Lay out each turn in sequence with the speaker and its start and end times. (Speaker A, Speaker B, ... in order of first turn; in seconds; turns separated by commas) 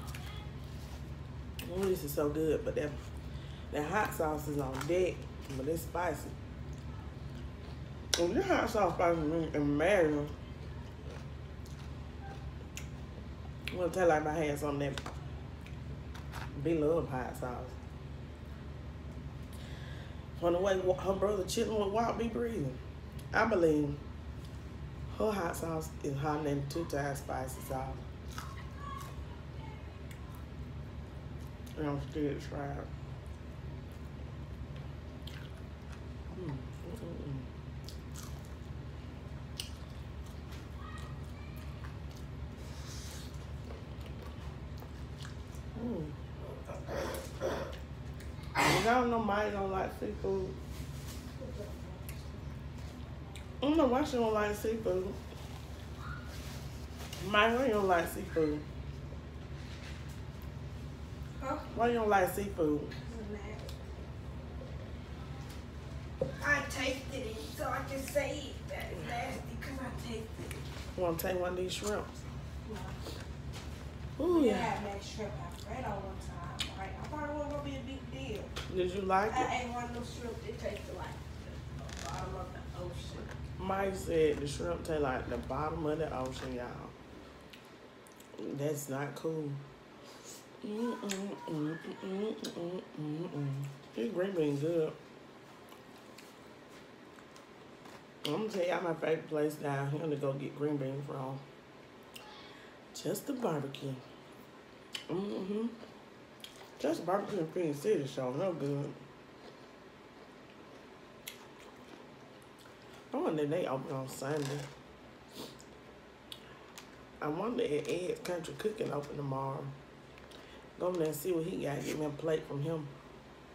Speaker A: 1.6-3.1, Speaker A: 3.7-6.3, Speaker A: 8.2-10.3, Speaker A: 13.7-15.0, Speaker A: 16.5-17.8, Speaker A: 20.4-22.8, Speaker A: 23.3-24.0, Speaker A: 25.1-28.1, Speaker A: 31.8-32.9, Speaker A: 36.3-37.5, Speaker A: 45.8-46.1, Speaker A: 48.6-50.6, Speaker B: 51.4-52.5, Speaker A: 53.6-55.2, Speaker A: 57.2-58.6, Speaker B: 61.4-61.7, Speaker A: 61.7-63.0, Speaker B: 63.0-63.8, Speaker B: 66.3-70.7, Speaker A: 71.0-72.2, Speaker B: 72.7-73.0, Speaker A: 74.2-74.8, Speaker B: 74.2-78.5, Speaker A: 78.7-79.5, Speaker B: 79.3-83.3, Speaker A: 83.6-87.0, Speaker A: 88.4-89.6, Speaker A: 90.6-95.0, Speaker A: 98.2-101.4, Speaker A: 102.9-104.0, Speaker A: 105.1-105.8, Speaker A: 106.8-109.0, Speaker A: 113.1-114.7, Speaker A: 117.2-119.7, Speaker A: 120.8-122.9